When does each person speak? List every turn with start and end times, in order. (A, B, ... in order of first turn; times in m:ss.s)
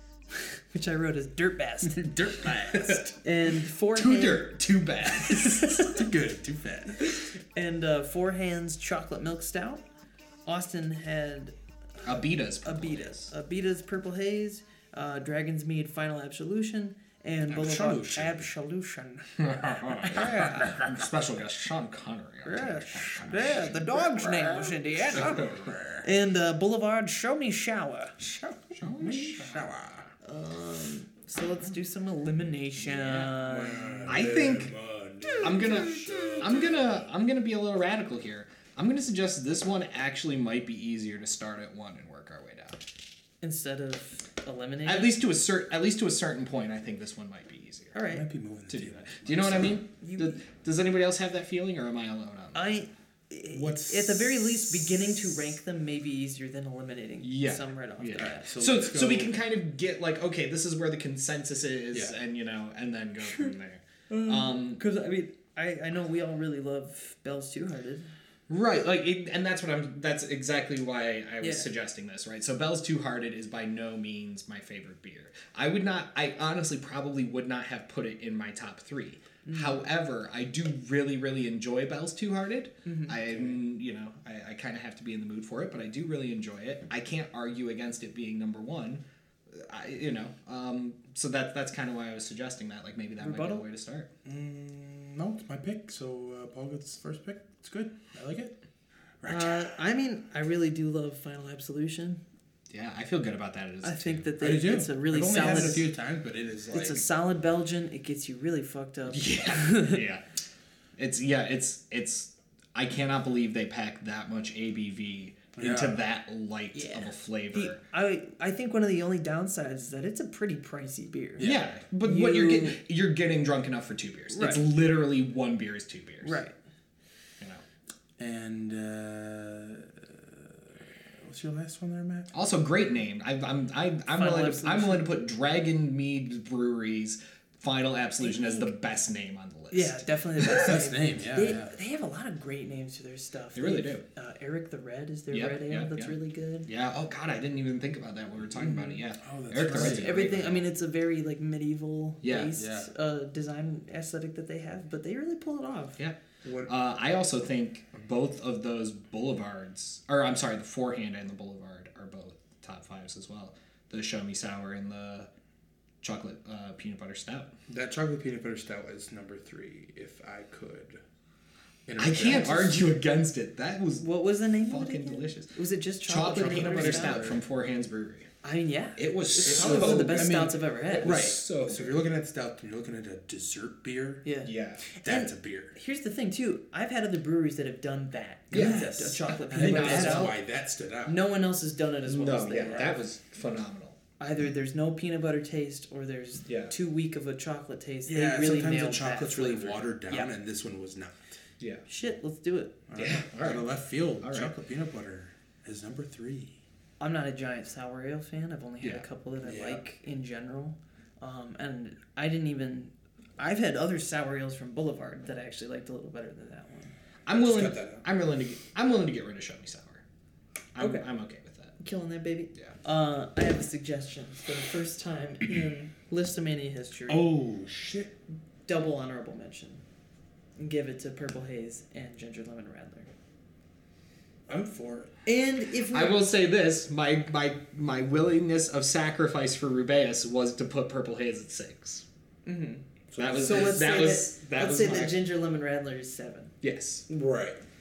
0:00.3-0:02.1 A
0:01.9-0:03.1 B
0:02.4-0:03.1 C
0:03.2-0:04.5 A
0:03.9-0:06.0 C
0:05.4-0:07.1 B
0:07.5-0:09.8 A
0:10.4-0:11.5 A
0:12.0-0:13.3 C
0:12.6-0:19.4 A
0:17.5-0:18.5 B
0:19.4-0:25.8 C
0:19.8-0:20.6 B
0:20.1-0:20.8 A
0:22.4-0:28.2 A
0:25.1-0:26.1 B
0:28.3-0:30.1 B
0:28.7-0:29.7 C
0:30.2-0:34.2 A
0:32.8-0:33.3 C
0:33.4-0:37.1 B
0:34.0-0:34.7 C
0:35.4-0:42.8 C
0:43.4-0:45.2 A
0:44.8-0:47.9 C
0:47.9-0:48.2 A
0:48.1-0:49.8 B
0:48.7-0:52.7 C
0:50.0-0:50.4 A
0:52.5-0:58.5 A
0:53.5-0:55.3 B
0:57.2-1:04.8 C
0:58.2-0:59.4 B
1:01.9-1:02.2 B
1:04.1-1:08.1 A
1:08.5-1:34.1 C
1:11.4-1:11.7 A
1:19.4-1:19.8 A
1:22.8-1:23.2 A
1:23.2-1:23.6 B
1:33.2-1:33.6 A
1:34.2-1:38.6 B
1:39.2-1:39.7 B
1:39.3-1:42.2 A
1:42.7-1:44.3 C
1:43.8-1:45.9 A
1:44.4-1:47.1 B
1:46.7-1:50.0 A
1:49.1-1:50.2 C
1:51.0-1:57.8 C
1:55.6-1:56.1 B
1:56.7-2:01.5 A
2:01.4-2:01.7 B
2:01.4-2:06.4 C
2:02.0-2:02.8 A
2:04.3-2:04.7 A
2:06.2-2:06.6 A
2:08.2-2:12.3 B
2:12.3-2:20.6 C
2:14.1-2:15.1 A
2:18.2-2:18.7 A
2:19.7-2:26.7 A
2:20.6-2:21.7 B
2:23.5-2:24.0 C
2:25.3-2:30.6 C
2:28.6-2:29.0 A
2:29.2-2:30.3 B
2:29.7-2:36.0 A
2:32.2-2:32.6 C
2:32.5-2:32.9 B
2:36.0-2:45.3 C
2:36.4-2:36.7 B
2:46.0-2:47.5 C
2:47.7-2:51.0 B
2:51.8-2:52.9 B
2:52.0-2:55.5 C
2:54.0-2:57.4 A
2:56.0-2:58.3 C
2:56.3-2:57.4 B
2:58.4-3:01.2 A
2:59.0-3:02.0 C
2:59.4-3:04.3 B
3:04.2-3:10.3 A
3:04.4-3:04.8 C
3:05.0-3:05.8 B
3:08.5-3:11.2 B
3:08.5-3:08.8 C
3:09.5-3:10.4 C
3:11.0-3:13.0 A
3:12.1-3:14.0 C
3:14.2-3:20.3 A
3:16.4-3:16.7 C
3:18.0-3:21.4 B
3:21.6-3:21.8 C
3:21.9-3:22.8 A
3:22.9-3:26.6 B
3:23.0-3:23.7 C
3:24.2-3:24.5 C
3:27.0-3:36.9 A
3:29.4-3:29.8 B
3:37.2-3:40.0 C
3:37.3-3:38.0 B
3:40.7-3:41.8 C
3:40.8-3:41.0 A
3:41.8-3:47.2 A
3:47.1-3:48.2 B
3:48.6-3:49.8 A
3:50.6-3:53.1 A
3:54.5-3:55.1 B
3:55.2-3:56.2 A
3:55.9-4:02.0 C
4:02.4-4:06.5 A
4:03.1-4:03.8 B
4:03.2-4:05.2 C
4:06.6-4:07.0 C
4:07.1-4:07.6 B